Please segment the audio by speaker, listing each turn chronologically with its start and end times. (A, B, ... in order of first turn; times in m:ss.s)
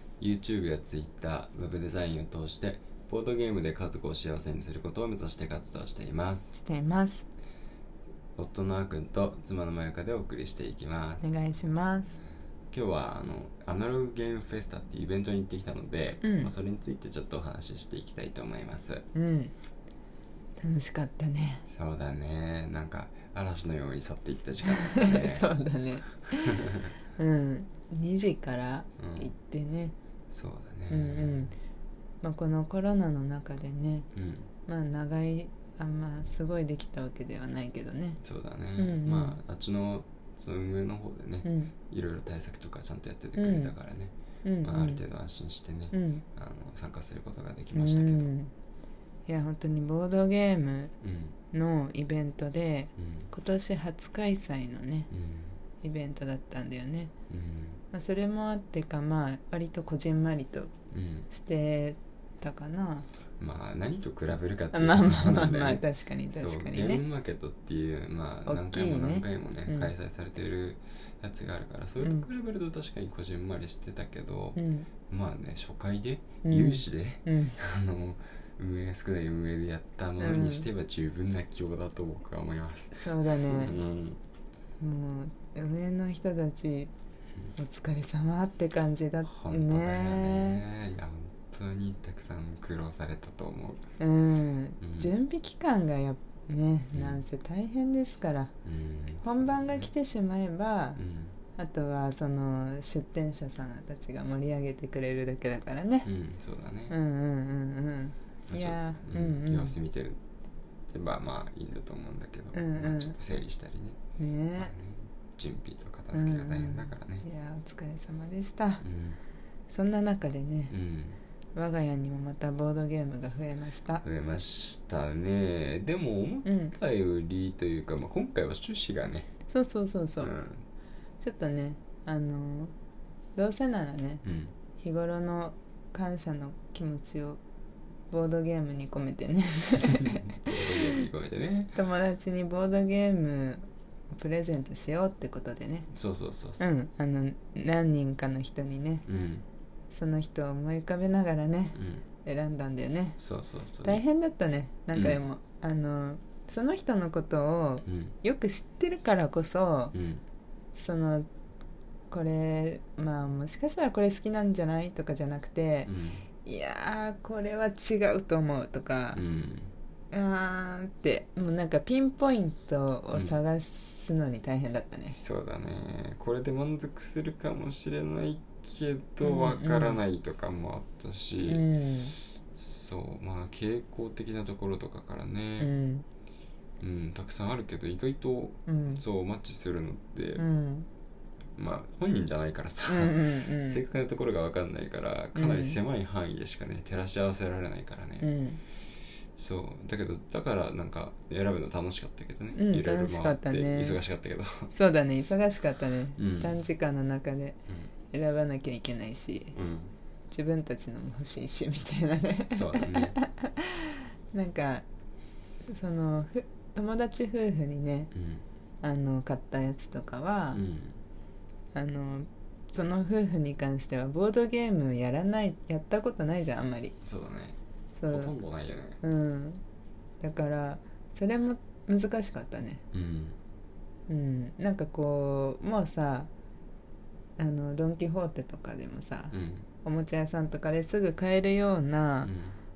0:00.2-0:06.5 A
0:06.5-0:07.2 B
0:08.4-0:11.3 A
0:11.2-0:12.2 B
0:12.7-0:19.0 A
0:16.2-0:16.5 B
0:19.1-0:19.5 B
0:20.6-0:21.6 B
0:21.7-0:25.5 A
0:24.6-0:26.6 B
0:26.6-0:26.9 A
0:27.2-0:29.9 B
0:29.0-0:29.3 A
0:30.3-0:31.5 A
0:30.9-0:31.5 B
0:32.2-0:34.1 B
0:34.1-0:34.5 A
0:34.6-0:38.2 B
0:38.2-0:48.3 A
0:38.8-0:39.4 B
0:41.4-0:41.7 B
0:43.4-0:43.7 B
0:44.4-0:45.0 B
0:45.9-0:46.2 B
0:47.7-0:48.5 B
0:49.3-0:50.9 B
0:51.0-0:51.3 A
0:51.5-0:55.1 B
0:53.0-0:53.3 A
0:55.1-0:55.6 A
0:55.8-0:57.1 B
0:57.3-0:57.8 A
0:57.9-1:00.7 B
1:00.9-1:01.3 A
1:01.3-1:03.1 B
1:03.4-1:24.2 A
1:04.7-1:07.0 B
1:08.5-1:09.9 B
1:12.0-1:12.2 B
1:14.6-1:14.9 B
1:16.4-1:17.6 B
1:20.2-1:20.7 B
1:23.0-1:23.8 B
1:24.8-1:26.9 B
1:27.6-1:30.6 B
1:29.3-1:33.9 A
1:34.0-1:38.5 B
1:34.8-1:35.1 A
1:36.9-1:37.2 A
1:38.6-1:39.9 A
1:39.2-1:41.0 B
1:41.0-1:41.4 A
1:41.6-1:46.1 B
1:46.0-1:46.9 A
1:46.9-1:49.7 B
1:48.5-1:50.2 A
1:50.9-1:54.0 A
1:52.5-1:53.1 B
1:54.2-1:54.7 B
1:54.6-1:57.2 A
1:56.1-1:58.8 B
1:58.8-1:59.2 A
1:59.7-2:00.7 B
2:00.7-2:01.2 A
2:01.5-2:04.0 B
2:04.0-2:09.3 A
2:06.4-2:06.7 B
2:09.5-2:10.3 B
2:10.2-2:10.6 A
2:11.2-2:12.7 B
2:13.4-2:14.2 B
2:14.2-2:14.5 A
2:14.8-2:17.4 B
2:18.1-2:20.7 B
2:20.2-2:21.7 A
2:21.7-2:25.9 B
2:25.9-2:26.6 A
2:26.6-2:29.0 B
2:29.1-2:29.4 A
2:29.9-2:33.2 B
2:31.7-2:32.0 A
2:33.2-2:34.0 A
2:33.8-2:39.9 B
2:34.9-2:35.2 A
2:37.8-2:38.1 A
2:39.9-2:40.2 A
2:40.7-2:41.3 B
2:42.1-2:45.9 B
2:45.8-2:46.2 A
2:46.4-2:49.2 B
2:49.1-2:49.7 A
2:50.1-2:55.2 B
2:53.1-2:53.4 A
2:55.1-3:01.6 A
2:59.2-3:00.0 B
3:01.4-3:02.1 B
3:02.6-3:05.7 A
3:05.6-3:06.0 B
3:06.8-3:10.4 A
3:08.7-3:09.0 B
3:10.4-3:10.9 B
3:11.6-3:18.3 A
3:12.9-3:13.8 B
3:15.3-3:15.8 B
3:18.2-3:18.6 B
3:19.4-3:24.7 A
3:22.5-3:24.0 B
3:24.7-3:27.6 B
3:26.2-3:26.6 A
3:28.1-3:29.5 B
3:29.5-3:29.9 A
3:30.3-3:34.8 B
3:32.5-3:33.2 A
3:35.6-3:38.1 B
3:38.1-3:38.4 A
3:38.8-3:40.6 B
3:40.5-3:41.0 A
3:41.7-3:47.0 B
3:47.0-3:47.6 A
3:48.0-3:48.3 B
3:48.1-3:49.0 A
3:49.0-3:49.6 B
3:50.2-3:52.8 B
3:52.9-3:53.4 A
3:54.1-3:56.3 B
3:57.4-4:02.3 B
3:59.3-3:59.6 A
4:02.2-4:02.6 A